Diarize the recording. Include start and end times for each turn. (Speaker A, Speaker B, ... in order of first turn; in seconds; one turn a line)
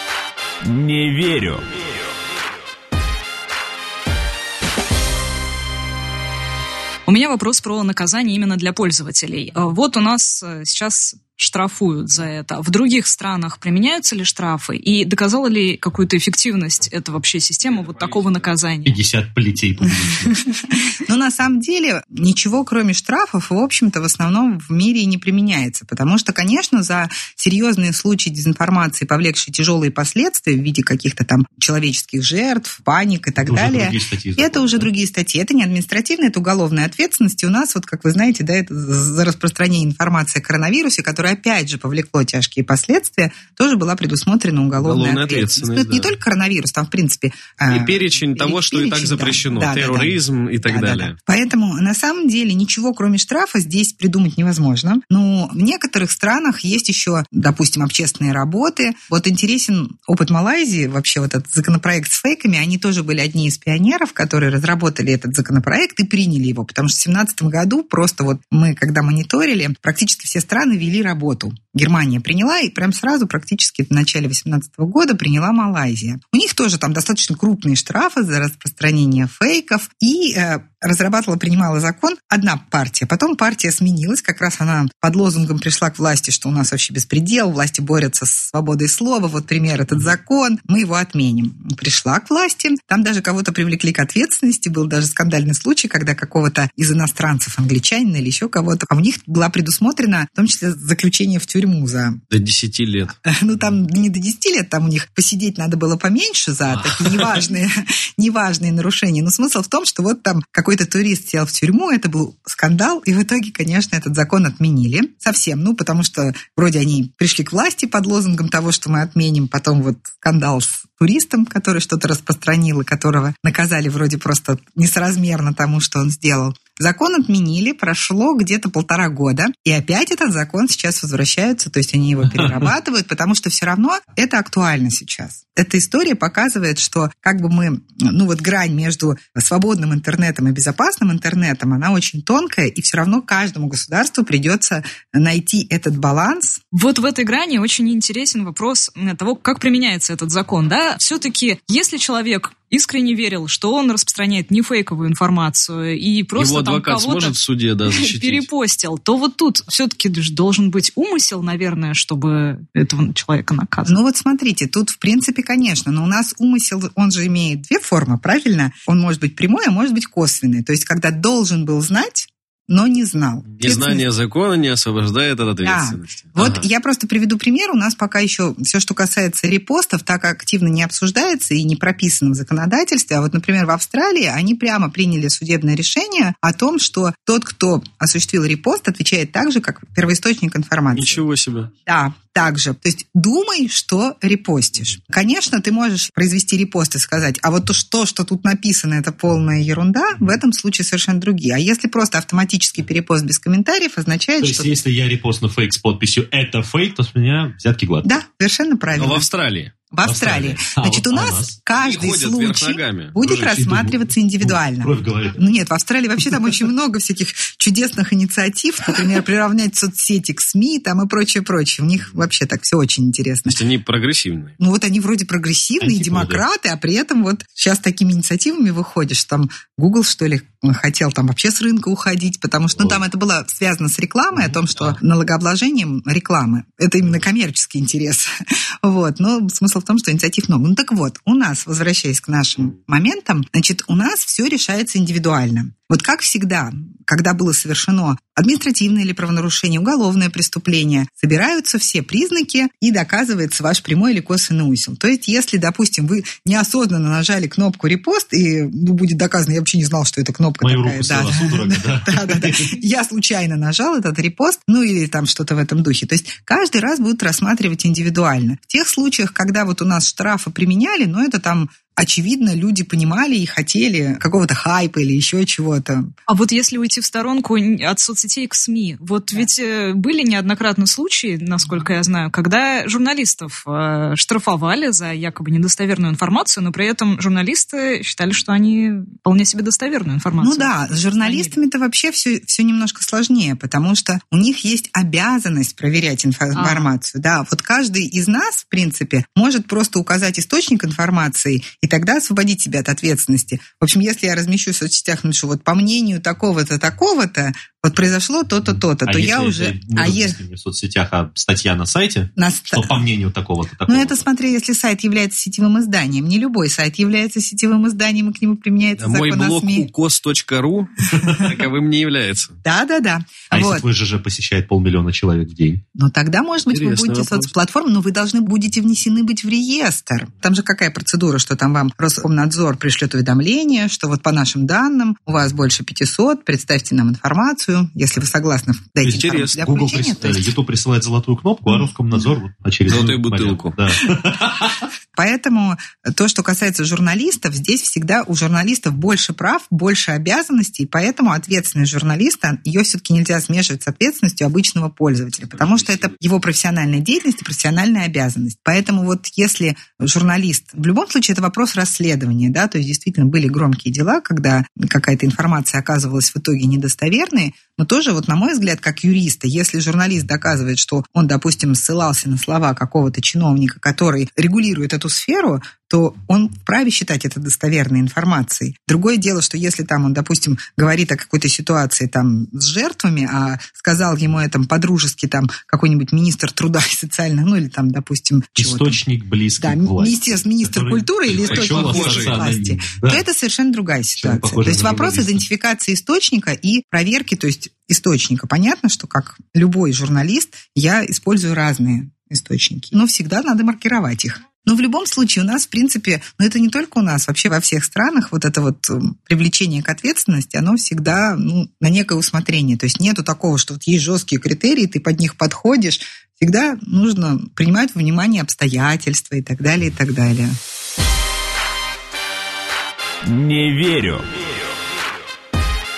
Speaker A: 0.6-1.7
Speaker B: 7.0-19.0
Speaker C: 17.8-18.4
Speaker D: 18.8-20.4
Speaker E: 19.9-102.2
Speaker D: 33.4-34.9
Speaker C: 44.8-46.1
Speaker C: 47.7-51.1
Speaker C: 102.3-103.2
Speaker E: 103.2-146.6
Speaker C: 106.7-107.4
Speaker D: 132.3-132.6
Speaker B: 146.7-157.3
Speaker C: 156.3-158.5
Speaker B: 157.9-164.0
Speaker E: 163.8-174.0
Speaker C: 173.6-176.6
Speaker E: 175.6-191.2
Speaker C: 190.9-191.7
Speaker E: 191.8-204.8
Speaker D: 204.4-208.1
Speaker E: 208.0-209.3
Speaker C: 208.9-209.7
Speaker E: 209.9-223.6
Speaker D: 210.0-211.6
Speaker C: 211.8-213.1
Speaker D: 213.2-215.4
Speaker C: 223.4-224.6
Speaker E: 224.6-276.1
Speaker D: 225.8-226.4
Speaker D: 232.8-233.0
Speaker D: 234.3-235.0
Speaker D: 260.6-262.8
Speaker B: 276.3-291.5
Speaker E: 290.4-310.4
Speaker B: 296.5-296.9
Speaker D: 309.0-314.3
Speaker E: 312.4-313.0
Speaker E: 313.9-319.9
Speaker C: 319.0-322.6
Speaker D: 321.1-321.4
Speaker E: 322.6-323.8
Speaker D: 323.5-325.8
Speaker E: 325.9-340.5
Speaker C: 326.7-327.5
Speaker D: 339.0-344.9
Speaker C: 339.1-339.6
Speaker C: 342.9-343.8
Speaker E: 345.1-389.0
Speaker D: 355.5-356.1
Speaker D: 388.6-393.2
Speaker E: 389.6-420.6
Speaker C: 391.3-392.4
Speaker D: 394.2-395.4
Speaker A: 423.3-424.3